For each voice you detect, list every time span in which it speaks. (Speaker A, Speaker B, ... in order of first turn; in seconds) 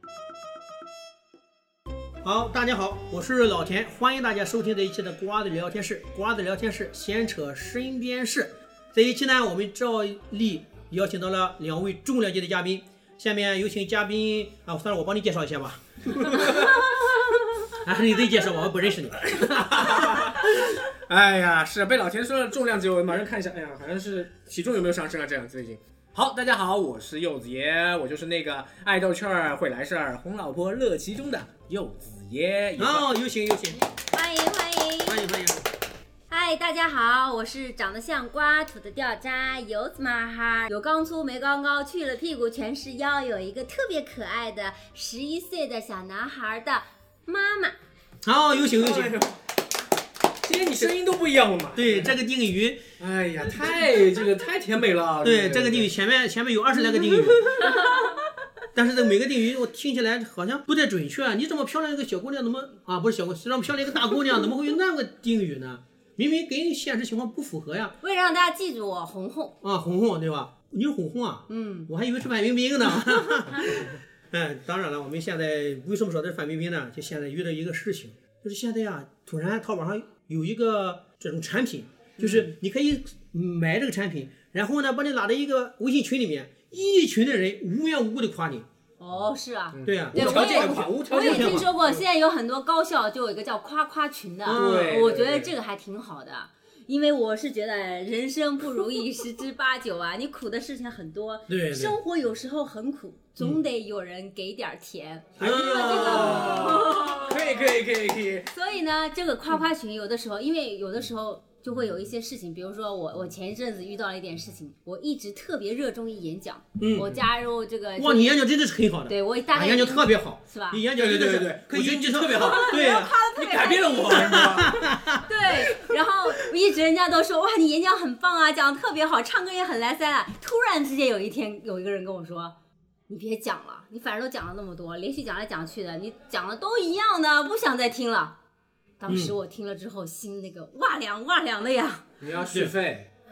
Speaker A: 2.2-16.6, 17.8-20.4, 32.8-33.9, 35.0-35.7, 48.2-49.2, 51.7-52.9, 53.5-53.8, 55.2-57.8, 58.7-68.0, 69.6-88.6, 89.8-91.7, 94.5-95.0, 101.5-102.0, 105.4-106.9, 116.8-117.1, 118.0-123.1, 124.1-125.2, 139.1-139.3
Speaker B: 16.2-16.9, 19.4-33.1, 48.6-49.4, 50.4-52.2, 53.0-55.9, 89.7-92.0, 94.5-95.5, 105.4-108.5, 120.9-124.9, 142.2-143.1
Speaker C: 34.0-35.2, 36.3-47.8, 57.5-58.2, 68.0-69.6, 71.5-71.9, 82.2-82.5, 89.0-107.7, 108.5-118.4, 119.1-120.8, 122.3-132.6, 133.1-138.4, 139.0-142.1